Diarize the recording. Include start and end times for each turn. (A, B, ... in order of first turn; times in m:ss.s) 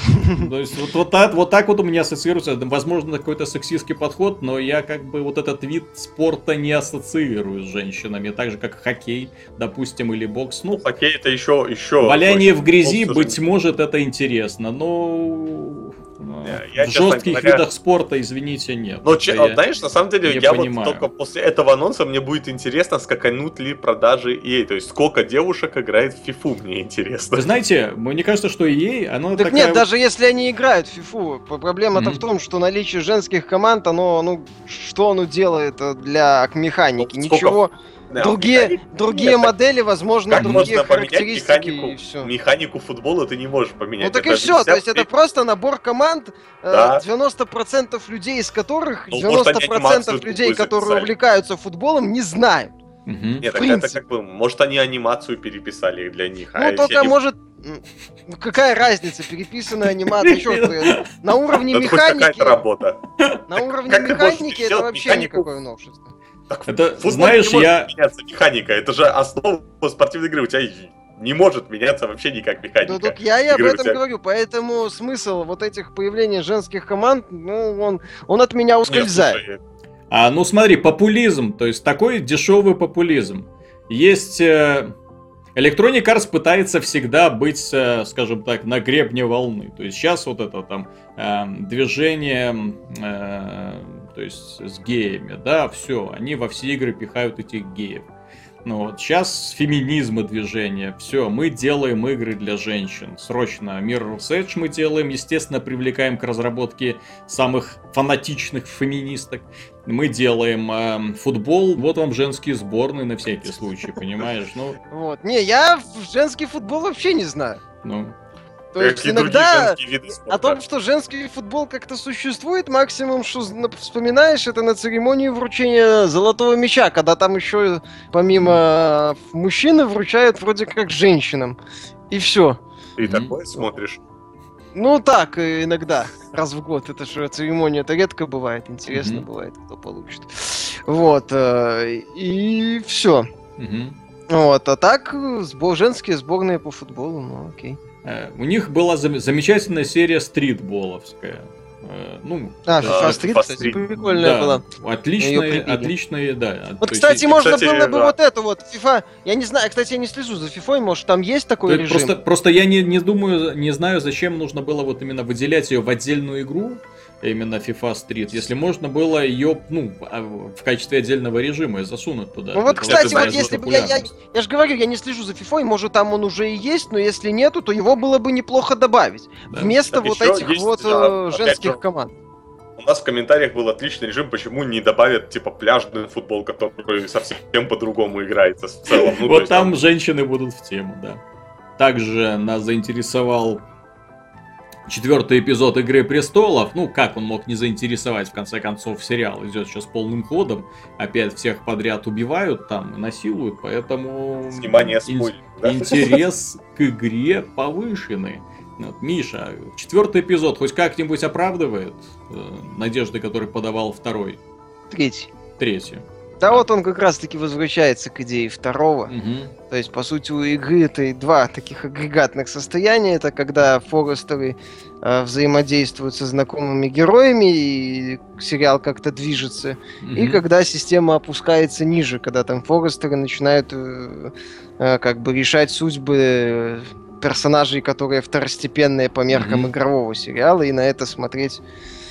0:00.2-0:10.8 A
0:10.7-0:13.4 B
0:12.0-0:19.6 A
0:16.4-0:17.6 B
0:19.0-0:27.4 B
0:20.2-0:21.1 A
0:27.4-0:29.8 A
0:29.4-0:42.3 C
0:32.0-0:32.2 A
0:37.0-0:39.5 B
0:40.3-0:45.1 B
0:40.4-0:40.7 A
0:44.0-0:52.8 C
0:46.7-0:47.0 B
0:49.1-0:51.1 B
0:53.1-0:53.4 A
0:53.4-0:57.2 B
0:53.5-0:54.0 C
0:56.6-1:02.6 C
1:00.1-1:01.0 A
1:01.7-1:03.0 B
1:03.5-1:06.1 C
1:03.9-1:05.5 B
1:06.5-1:14.0 B
1:06.7-1:07.9 A
1:12.8-1:19.4 C
1:18.9-1:19.6 B
1:20.1-1:24.9 A
1:25.6-1:38.1 A
1:38.6-1:54.8 A
1:54.9-1:57.6 C
1:57.8-1:58.2 A
1:58.7-2:11.6 C
1:58.8-2:00.6 B
2:12.1-2:12.6 C
2:13.0-2:14.0 B
2:13.0-2:13.4 A
2:14.7-2:23.3 C
2:18.9-2:19.3 A
2:23.6-2:24.0 A
2:24.3-2:27.8 C
2:28.0-2:37.5 A
2:32.7-2:34.6 C
2:32.8-2:33.8 B
2:35.2-2:35.9 C
2:36.8-2:42.1 C
2:37.3-2:38.2 B
2:41.7-2:54.1 A
2:52.5-3:02.1 C
2:52.8-2:53.5 B
2:59.5-2:59.8 A
2:59.9-3:01.8 B
3:02.8-3:09.8 B
3:08.9-3:11.2 A
3:11.8-3:13.6 A
3:14.9-3:34.4 A
3:24.5-3:26.2 B
3:34.9-3:35.3 C
3:35.6-3:36.6 A
3:36.4-3:39.1 C
3:39.1-3:39.5 A
3:39.7-4:01.6 C
3:50.0-3:50.4 A
3:59.3-3:59.7 A